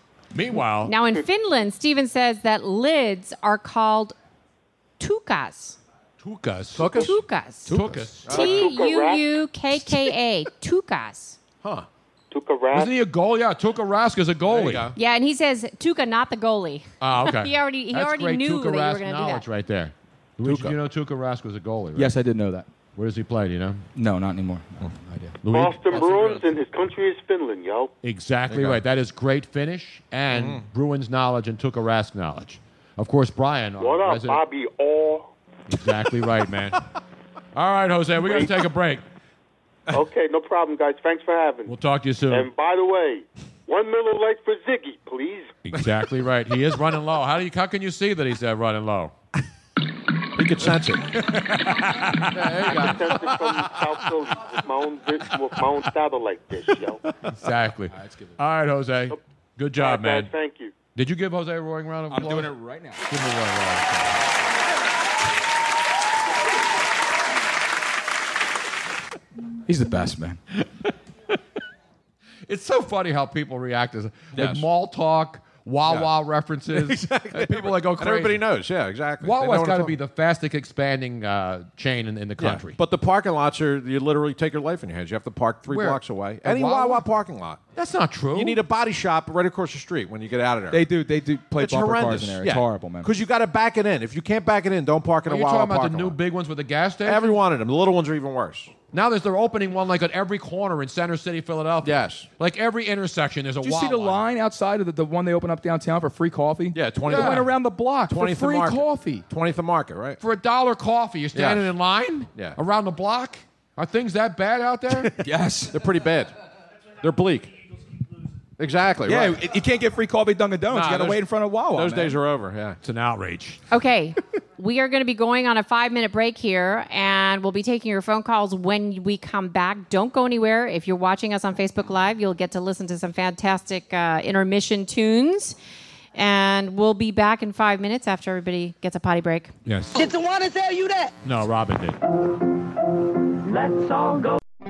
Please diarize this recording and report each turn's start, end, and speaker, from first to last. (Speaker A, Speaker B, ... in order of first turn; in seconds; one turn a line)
Speaker A: 0.3-0.9
Speaker B: 0.8-4.2
Speaker B: 5.0-5.8
Speaker A: 6.2-7.2
Speaker C: 6.8-7.2
Speaker B: 7.0-7.8
Speaker A: 7.7-8.5
Speaker C: 8.2-8.7
Speaker D: 8.3-9.3
Speaker B: 8.3-11.4
Speaker D: 12.3-12.9
Speaker A: 12.7-14.9
Speaker C: 14.5-14.9
Speaker B: 14.9-19.4
Speaker A: 17.0-22.1
Speaker C: 20.4-20.8
Speaker E: 22.0-22.7
Speaker A: 23.0-23.8
Speaker E: 24.0-25.4
Speaker A: 25.4-26.4
Speaker D: 25.5-27.9
Speaker A: 28.0-34.4
Speaker C: 28.5-28.8
Speaker C: 30.3-30.6
Speaker D: 33.8-35.3
Speaker A: 35.7-36.8
Speaker A: 37.5-39.0
Speaker D: 38.2-38.5
Speaker D: 39.9-41.8
Speaker A: 41.7-42.5
Speaker D: 42.3-45.5
Speaker A: 45.7-49.1
Speaker C: 50.4-51.1
Speaker A: 51.1-53.0
Speaker C: 52.3-53.0
Speaker D: 52.7-57.0
Speaker A: 57.3-60.3
Speaker D: 59.8-60.7
Speaker A: 61.0-62.5
Speaker E: 62.1-63.0
Speaker A: 63.1-64.2
Speaker E: 69.7-70.4
Speaker A: 72.5-78.4
Speaker C: 74.3-74.7
Speaker C: 76.7-80.0
Speaker A: 79.2-82.8
Speaker C: 82.4-87.6
Speaker A: 85.7-87.0
Speaker A: 87.8-88.6
Speaker C: 88.3-90.8
Speaker E: 90.7-93.1
Speaker C: 91.6-96.2
Speaker A: 95.3-97.4
Speaker C: 97.0-98.7
Speaker A: 98.9-104.2
Speaker C: 101.8-102.3
Speaker E: 103.6-109.2
Speaker C: 106.7-107.5
Speaker A: 107.1-107.5
Speaker C: 108.1-110.2
Speaker A: 110.2-115.1
Speaker C: 111.3-111.7
Speaker E: 115.2-115.8
Speaker C: 115.7-116.3
Speaker C: 117.0-117.5
Speaker C: 118.6-119.4
Speaker E: 119.0-122.2
Speaker C: 120.7-121.2
Speaker C: 121.7-122.8
Speaker A: 122.8-123.6
Speaker B: 123.7-135.6
Speaker B: 136.2-139.5
Speaker A: 139.7-140.1
Speaker F: 139.9-141.1
Speaker A: 141.2-142.0
Speaker F: 143.5-144.4